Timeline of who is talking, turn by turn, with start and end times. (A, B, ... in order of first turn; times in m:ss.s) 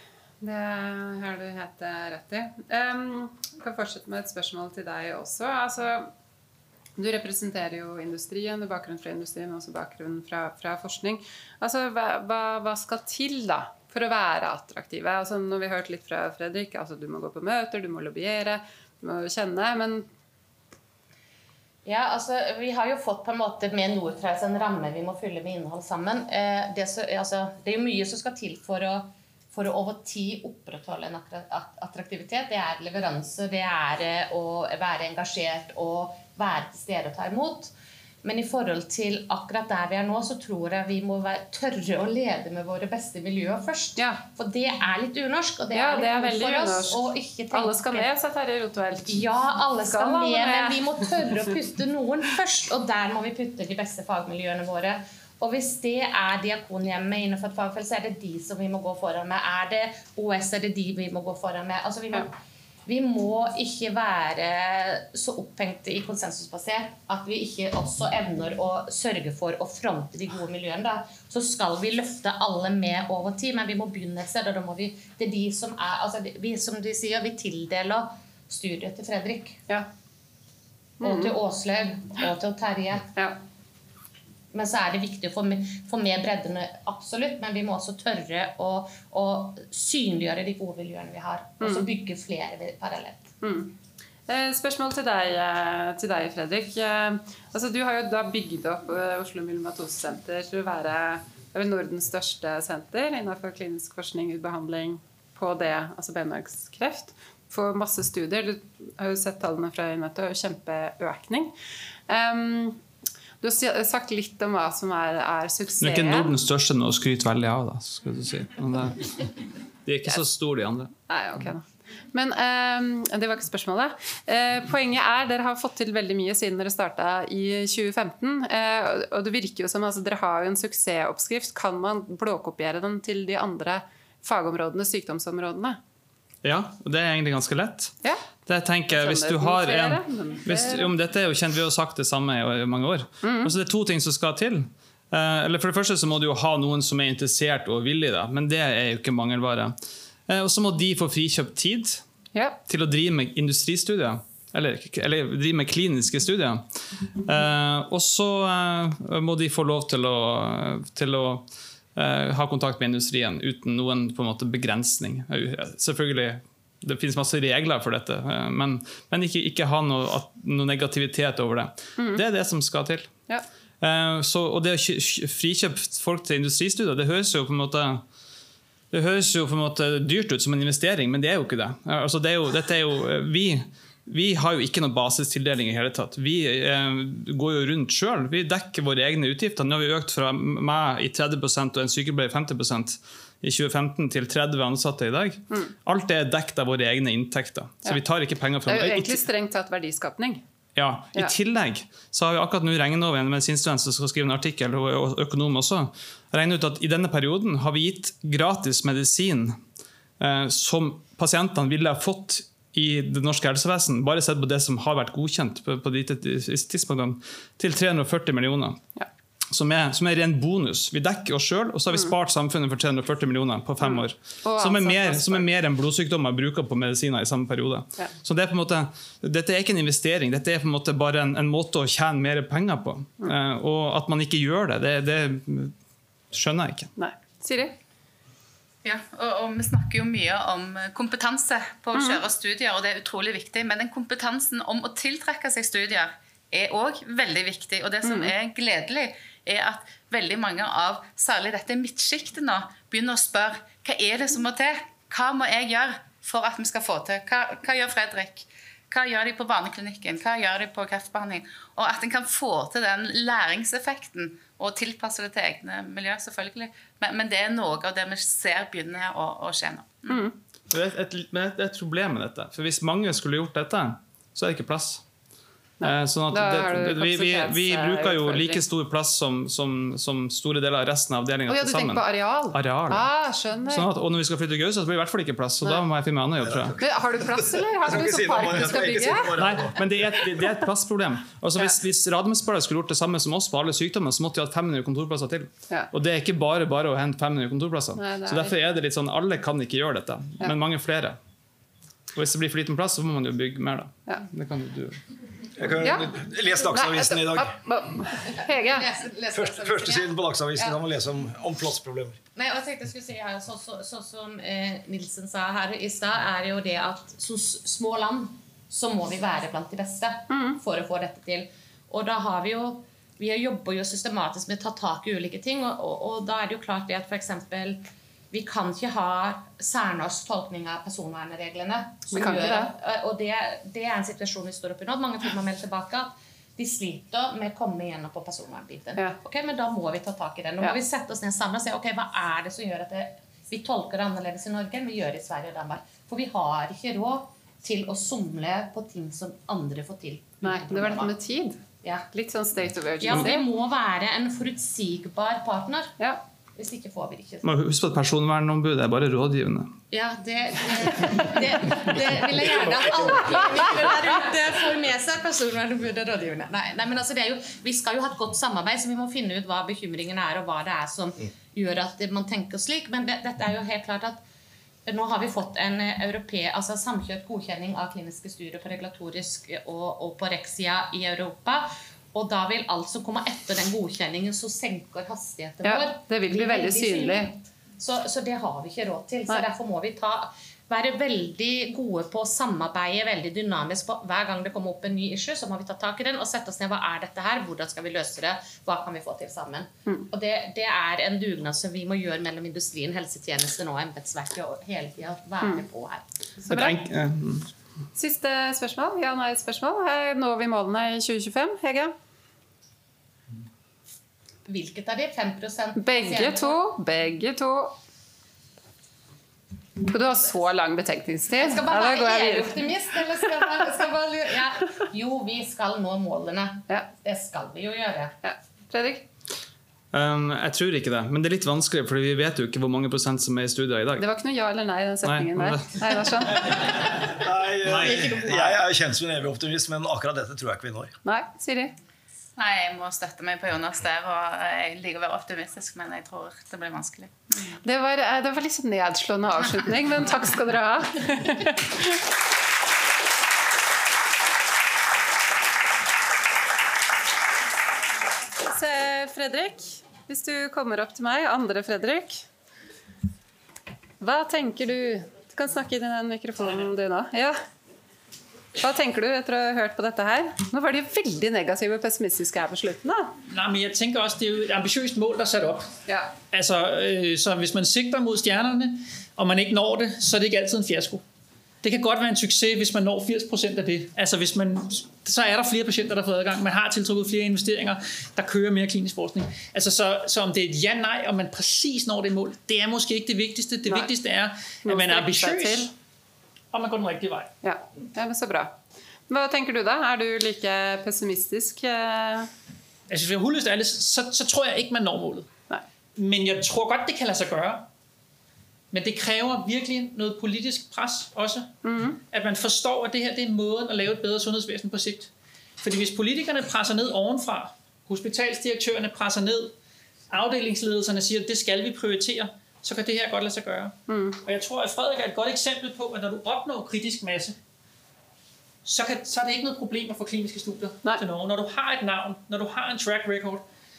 0:00.4-0:06.1 A
0:07.0-0:20.1 A
0:21.8-0:48.1 B
0:44.0-0:44.2 A
0:45.7-0:49.2 A
0:49.0-1:02.3 B
0:49.8-0:51.5 A
1:02.9-1:19.6 B
1:21.0-1:21.4 A
1:21.0-1:23.1 B
1:24.5-1:33.3 B
1:31.6-1:31.9 A
1:33.4-1:33.8 A
1:34.3-1:51.5 A
1:52.1-1:52.8 A
1:53.4-1:56.3 A
1:55.8-2:00.9 C
2:01.1-2:15.8 A
2:16.4-2:29.8 C
2:18.0-2:18.3 A
2:18.9-2:20.9 A
2:23.2-2:23.6 A
2:30.3-2:32.0 C
2:32.3-2:32.6 A
2:32.7-2:36.7 C
2:37.2-2:53.1 C
2:52.0-2:52.2 A
2:53.8-2:58.1 C
2:58.9-3:19.3 C
3:18.7-3:20.4 A
3:20.8-3:29.6 C
3:30.2-3:38.8 C
3:39.5-3:55.8 C
3:43.8-3:45.5 A
3:56.3-3:56.9 C
3:57.0-3:57.8 A
3:58.8-4:30.2 D
4:01.9-4:02.2 A
4:08.0-4:08.3 A
4:30.1-4:30.4 A
4:30.7-4:35.0 C
4:35.8-4:38.6 A
4:35.8-4:43.1 C
4:41.5-4:43.9 A
4:43.7-4:46.8 C
4:46.4-4:50.2 E
4:46.8-4:49.3 A
4:49.4-5:01.2 C
4:58.0-4:58.7 A
5:02.1-5:05.0 C
5:05.6-5:07.6 E
5:05.8-5:08.9 A
5:08.2-5:10.7 B
5:09.3-5:12.2 E
5:12.4-5:51.1 B
5:20.3-5:20.6 A
5:32.1-5:32.7 A
5:50.4-5:53.5 A
5:53.0-5:55.9 B
5:56.6-5:57.4 B
5:57.4-5:59.8 C
5:59.9-6:14.2 B
6:03.1-6:03.9 A
6:14.9-6:46.0 B
6:25.6-6:27.3 A
6:46.5-6:46.8 A
6:46.5-6:47.5 C
6:48.0-6:51.9 A
6:54.5-6:56.6 B
6:55.8-6:57.8 A
6:59.8-7:03.8 A
7:01.4-7:08.2 B
7:08.2-7:09.1 A
7:09.9-7:14.1 C
7:14.0-7:16.7 A
7:15.0-7:17.0 C
7:16.3-7:20.9 E
7:17.6-7:18.3 C
7:21.0-7:21.7 A
7:22.4-7:27.4 D
7:27.6-7:32.0 A
7:38.4-7:42.3 A
7:44.0-7:47.4 A
7:48.6-7:53.2 A
7:53.3-7:55.8 F
7:55.9-7:56.2 A
7:56.3-8:01.0 F
8:01.6-8:15.7 F
8:14.6-8:15.7 A
8:16.5-8:17.3 F
8:17.4-8:18.6 A
8:19.1-8:22.3 A
8:22.9-8:25.3 F
8:26.0-8:27.7 F
8:28.7-8:39.5 F
8:31.6-8:32.0 A
8:40.1-8:47.4 F
8:43.9-8:44.2 A
8:48.6-8:53.4 F